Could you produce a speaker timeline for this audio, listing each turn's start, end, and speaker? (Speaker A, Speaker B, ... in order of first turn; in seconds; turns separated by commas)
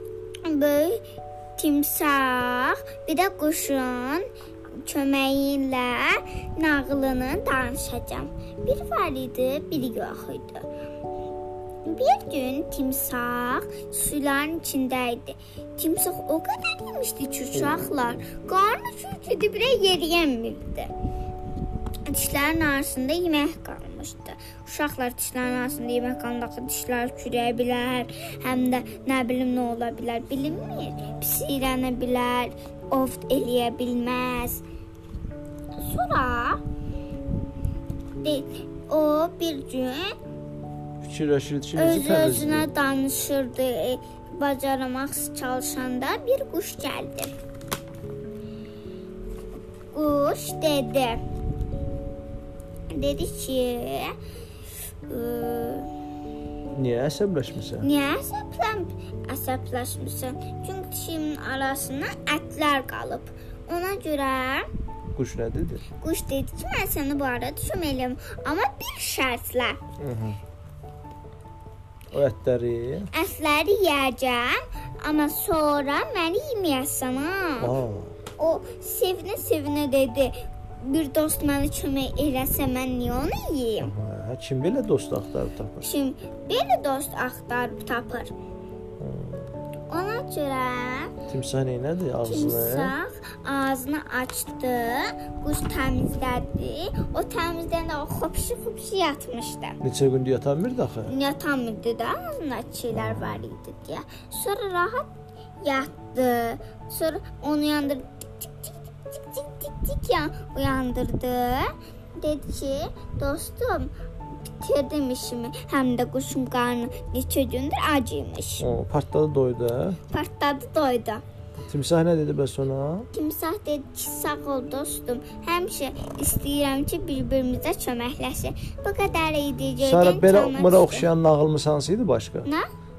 Speaker A: 0.4-1.0, Speaker A: 1.6-4.3, Speaker A: 4.8-10.7, Speaker A: 11.8-20.9, Speaker B: 17.6-18.0, Speaker A: 22.1-34.6, Speaker A: 35.8-36.6, Speaker A: 38.2-40.1, Speaker B: 41.0-42.7, Speaker A: 41.8-47.3, Speaker A: 49.9-51.2, Speaker A: 52.9-54.1, Speaker A: 55.1-55.9, Speaker B: 56.7-57.9, Speaker A: 57.8-64.7, Speaker B: 65.2-65.8, Speaker A: 66.0-69.8, Speaker B: 70.0-70.4, Speaker B: 72.1-73.1, Speaker A: 73.1-77.8, Speaker B: 77.6-78.1, Speaker A: 78.4-83.9, Speaker B: 83.8-85.9, Speaker A: 85.8-88.3, Speaker B: 89.0-89.6, Speaker A: 89.9-91.2, Speaker B: 91.3-92.9, Speaker A: 92.2-99.8, Speaker B: 99.8-101.2, Speaker A: 101.1-105.1, Speaker B: 103.0-103.4, Speaker A: 105.6-113.9, Speaker A: 114.5-118.7, Speaker B: 118.6-120.0, Speaker A: 120.1-121.2, Speaker B: 121.7-123.1, Speaker A: 123.1-131.1, Speaker B: 129.8-132.5